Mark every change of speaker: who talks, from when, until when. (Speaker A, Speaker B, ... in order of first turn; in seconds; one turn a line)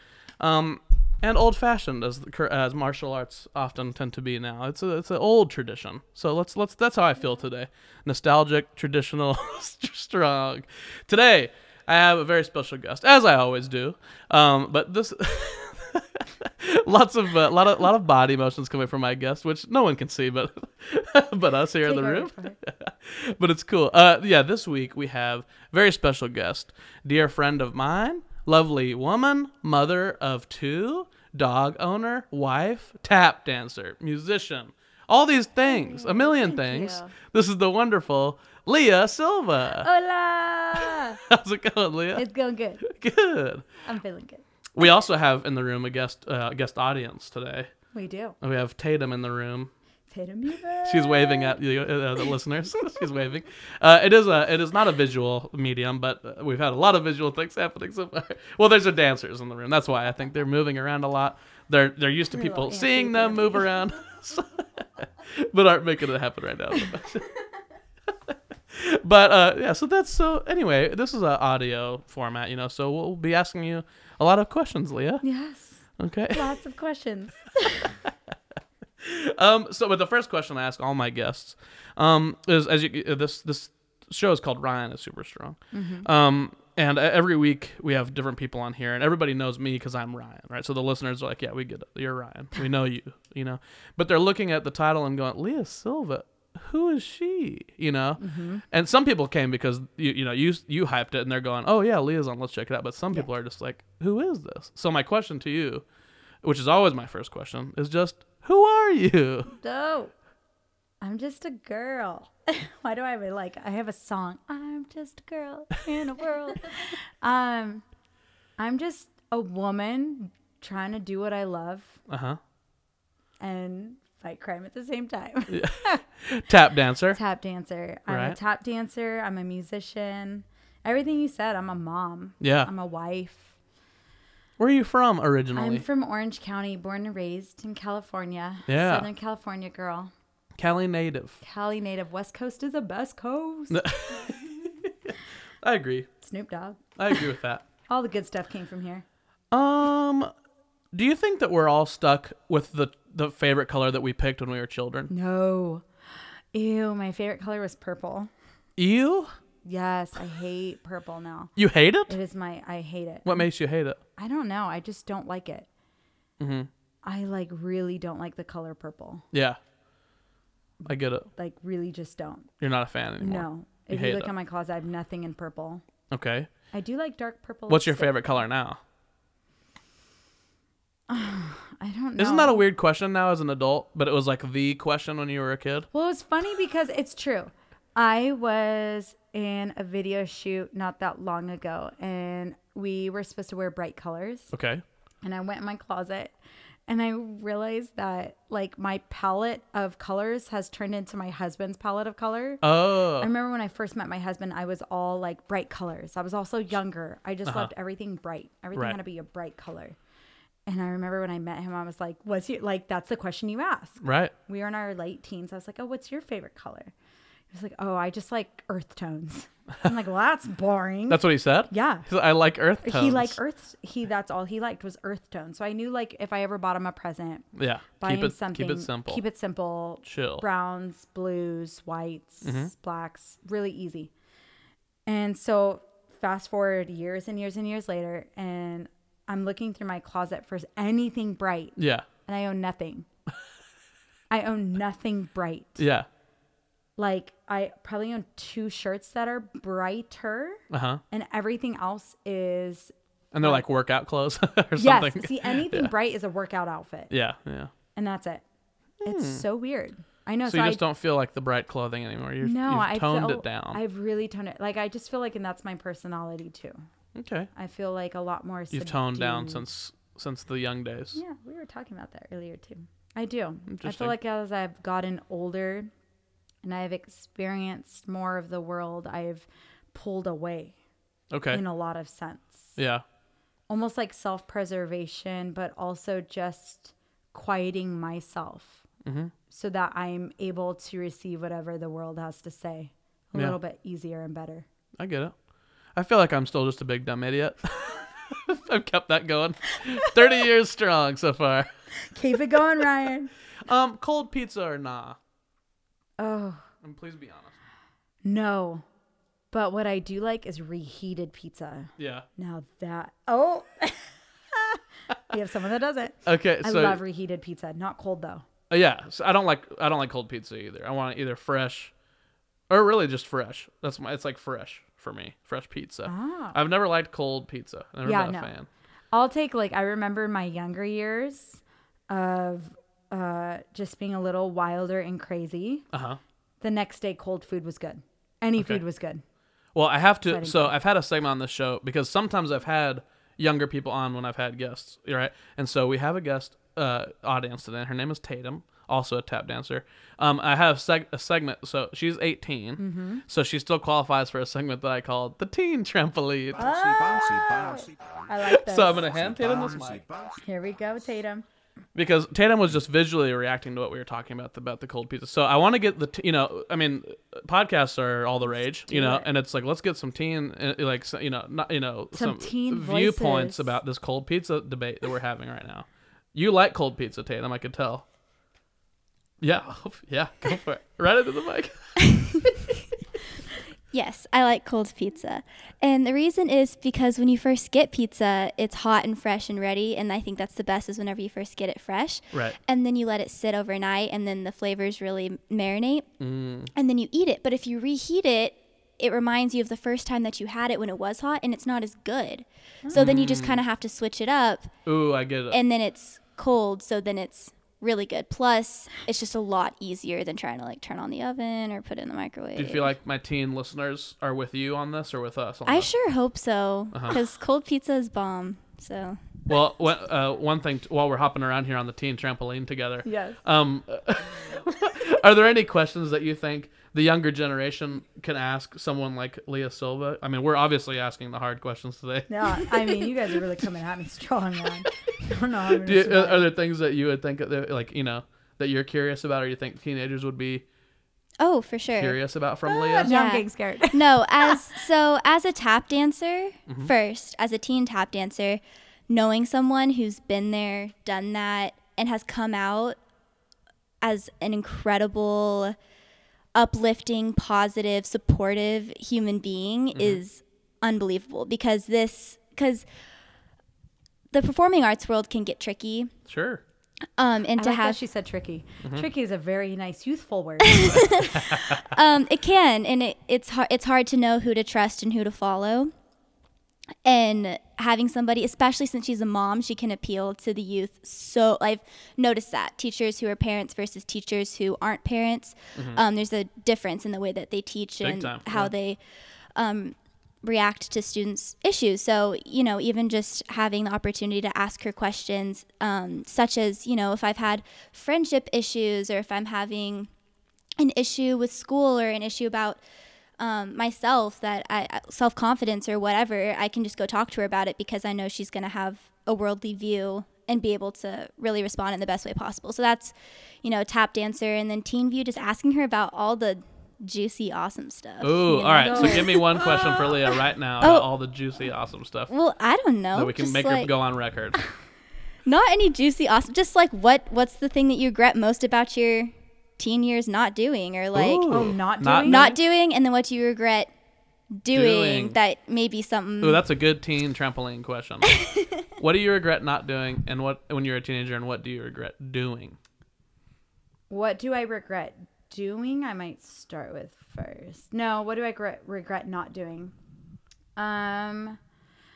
Speaker A: 0.4-39.9
Speaker B: 21.8-22.6
Speaker B: 35.7-37.1
Speaker B: 39.8-41.2
Speaker A: 40.8-42.3
Speaker B: 42.2-42.8
Speaker A: 42.8-43.6
Speaker B: 43.8-44.4
Speaker A: 44.8-47.7
Speaker B: 47.9-48.4
Speaker A: 48.4-49.7
Speaker B: 50.1-51.6
Speaker A: 50.8-67.3
Speaker B: 62.3-63.8
Speaker A: 68.7-75.2
Speaker B: 75.2-77.9
Speaker A: 76.0-76.4
Speaker A: 79.0-105.8
Speaker B: 85.7-86.1
Speaker B: 98.2-98.6
Speaker A: 106.4-109.5
Speaker B: 109.6-110.1
Speaker B: 111.0-117.8
Speaker B: 118.6-122.0
Speaker A: 122.1-122.4
Speaker B: 123.4-126.0
Speaker A: 125.5-127.2
Speaker B: 127.1-133.6
Speaker A: 128.1-128.4
Speaker A: 132.4-132.7
Speaker A: 134.6-135.8
Speaker B: 135.6-140.1
Speaker A: 138.7-139.1
Speaker A: 140.6-141.4
Speaker B: 141.4-143.8
Speaker A: 143.7-146.1
Speaker B: 146.2-147.2
Speaker A: 147.0-147.6
Speaker B: 147.9-149.1
Speaker A: 149.5-150.3
Speaker A: 150.9-155.1
Speaker B: 155.1-155.9
Speaker B: 156.5-158.3
Speaker A: 158.8-159.3
Speaker B: 159.6-161.5
Speaker A: 161.6-162.2
Speaker B: 162.1-163.5
Speaker A: 163.2-164.0
Speaker B: 164.2-165.7
Speaker A: 166.4-166.7
Speaker B: 167.0-169.2
Speaker A: 169.3-169.6
Speaker A: 170.9-171.3
Speaker B: 171.3-172.5
Speaker A: 172.6-174.3
Speaker B: 173.2-175.8
Speaker A: 176.1-176.5
Speaker B: 176.7-178.3
Speaker A: 177.7-178.8
Speaker B: 181.1-182.6
Speaker A: 182.2-185.9
Speaker B: 185.9-194.5
Speaker A: 194.5-194.8
Speaker B: 195.2-196.3
Speaker B: 196.9-202.6
Speaker A: 202.6-203.3
Speaker B: 203.2-210.0
Speaker A: 207.5-207.7
Speaker A: 208.7-209.0
Speaker B: 210.7-216.9
Speaker A: 214.0-214.3
Speaker B: 217.5-222.1
Speaker A: 221.1-223.4
Speaker B: 222.8-227.5
Speaker A: 227.6-229.2
Speaker B: 228.0-234.1
Speaker A: 230.1-230.4
Speaker A: 232.4-232.7
Speaker B: 235.1-243.1
Speaker A: 241.8-242.1
Speaker B: 244.3-245.8
Speaker A: 245.8-246.1
Speaker B: 247.0-253.6
Speaker A: 250.7-251.0
Speaker A: 253.3-255.9
Speaker B: 254.8-257.1
Speaker A: 257.1-257.7
Speaker B: 257.9-258.4
Speaker A: 259.0-259.4
Speaker B: 259.0-260.8
Speaker A: 260.4-263.8
Speaker B: 262.4-266.8
Speaker A: 267.1-267.5
Speaker B: 267.6-269.6
Speaker A: 268.7-271.2
Speaker B: 271.1-275.9
Speaker A: 273.7-274.1
Speaker B: 276.6-280.8
Speaker A: 281.3-281.6
Speaker B: 281.5-282.8
Speaker A: 282.8-283.0
Speaker B: 283.7-288.8
Speaker A: 289.1-289.3
Speaker B: 289.5-294.7
Speaker A: 295.0-295.4
Speaker A: 295.9-301.7
Speaker B: 302.1-303.3
Speaker A: 303.6-305.2
Speaker B: 306.2-306.6
Speaker A: 306.8-307.6
Speaker B: 308.2-308.9
Speaker B: 309.5-318.4
Speaker A: 312.0-312.3
Speaker A: 316.3-317.0
Speaker A: 318.7-321.9
Speaker A: 322.7-328.7
Speaker B: 326.1-326.6
Speaker B: 328.0-328.5
Speaker B: 329.1-335.9
Speaker A: 335.9-336.2
Speaker B: 336.6-339.2
Speaker A: 339.8-356.6
Speaker B: 340.2-340.8
Speaker B: 352.8-353.2
Speaker C: 356.6-358.4
Speaker B: 356.6-359.1
Speaker A: 358.4-360.0
Speaker C: 359.0-360.4
Speaker B: 360.4-361.5
Speaker A: 361.9-378.1
Speaker B: 368.8-369.3
Speaker B: 372.1-373.8
Speaker A: 379.4-382.0
Speaker D: 382.0-382.5
Speaker D: 383.9-396.1
Speaker A: 392.3-392.6
Speaker A: 396.2-396.7
Speaker D: 396.7-404.7
Speaker B: 402.8-403.1
Speaker A: 402.9-403.6
Speaker A: 404.9-405.6
Speaker D: 405.5-412.9
Speaker A: 412.6-415.9
Speaker D: 415.7-419.3
Speaker A: 419.5-433.1
Speaker B: 423.1-423.4
Speaker B: 432.3-436.5
Speaker A: 435.8-440.6
Speaker D: 441.4-442.2
Speaker A: 442.0-443.1
Speaker B: 442.7-444.6
Speaker D: 443.0-453.0
Speaker D: 454.0-455.8
Speaker D: 456.6-462.9
Speaker A: 459.9-460.2
Speaker D: 464.3-466.1
Speaker A: 466.3-466.6
Speaker D: 467.2-468.0
Speaker B: 467.6-471.1
Speaker D: 470.6-475.9
Speaker A: 471.3-471.8
Speaker D: 477.1-489.0
Speaker A: 488.0-488.7
Speaker D: 489.6-500.1
Speaker D: 500.8-502.8
Speaker D: 503.4-520.0
Speaker A: 518.2-522.3
Speaker B: 518.8-519.7
Speaker D: 520.8-521.1
Speaker D: 522.3-523.9
Speaker A: 523.1-524.6
Speaker D: 525.5-531.7
Speaker A: 531.1-532.5
Speaker B: 531.5-532.6
Speaker D: 532.2-533.9
Speaker D: 534.5-536.6
Speaker A: 534.7-535.4
Speaker A: 536.4-538.4
Speaker D: 538.3-538.7
Speaker A: 539.0-542.8
Speaker B: 544.1-549.9
Speaker B: 550.8-551.6